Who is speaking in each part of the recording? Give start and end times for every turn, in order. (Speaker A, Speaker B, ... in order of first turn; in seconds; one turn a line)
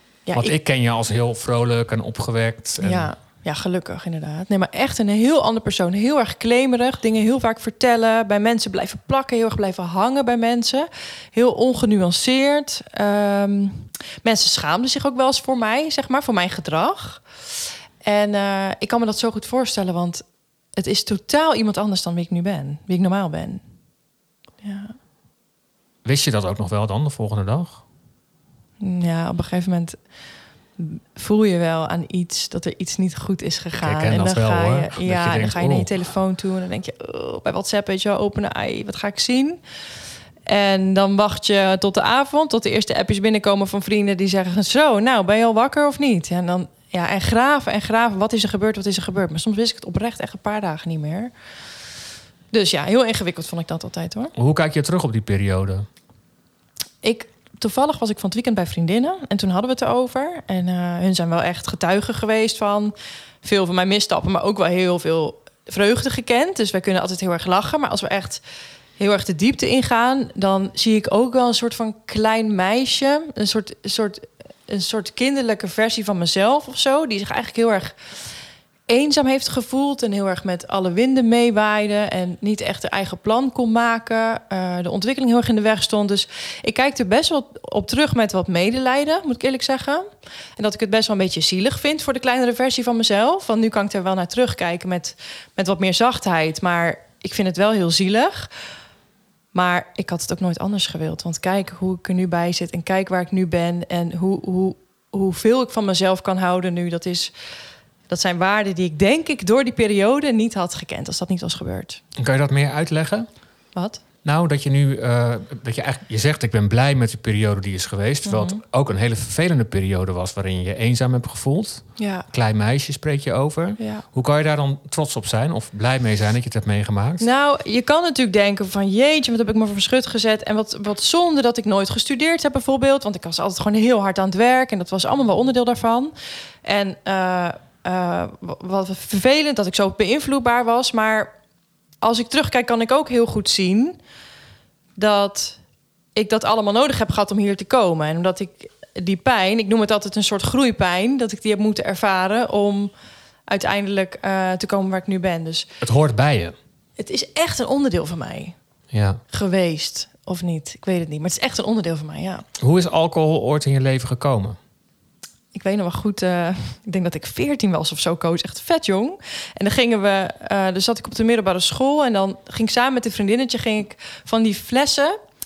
Speaker A: 0.2-0.6
Speaker B: 0.3-3.1
Speaker A: 2.8-17.2
Speaker A: 18.0-20.2
Speaker A: 20.8-23.6
Speaker A: 24.6-24.9
Speaker B: 26.1-27.8
Speaker A: 28.8-30.0
Speaker A: 30.8-39.6
Speaker B: 33.8-35.9
Speaker A: 40.5-51.3
Speaker A: 52.5-54.3
Speaker B: 54.4-55.9
Speaker A: 57.0-68.4
Speaker A: 69.0-77.9
Speaker A: 78.9-90.0
Speaker A: 90.6-98.5
Speaker A: 99.5-107.3
Speaker A: 108.1-112.0
Speaker B: 112.2-113.3
Speaker A: 113.8-114.0
Speaker B: 114.2-127.3
Speaker A: 118.2-118.6
Speaker A: 122.0-122.2
Speaker A: 123.8-124.0
Speaker A: 127.2-136.1
Speaker A: 136.6-141.3
Speaker A: 142.0-144.0
Speaker A: 145.0-145.6
Speaker A: 146.2-152.9
Speaker A: 153.5-155.7
Speaker B: 155.8-156.5
Speaker A: 157.0-158.5
Speaker B: 158.9-159.2
Speaker A: 159.3-162.4
Speaker B: 162.6-164.6
Speaker A: 165.5-175.1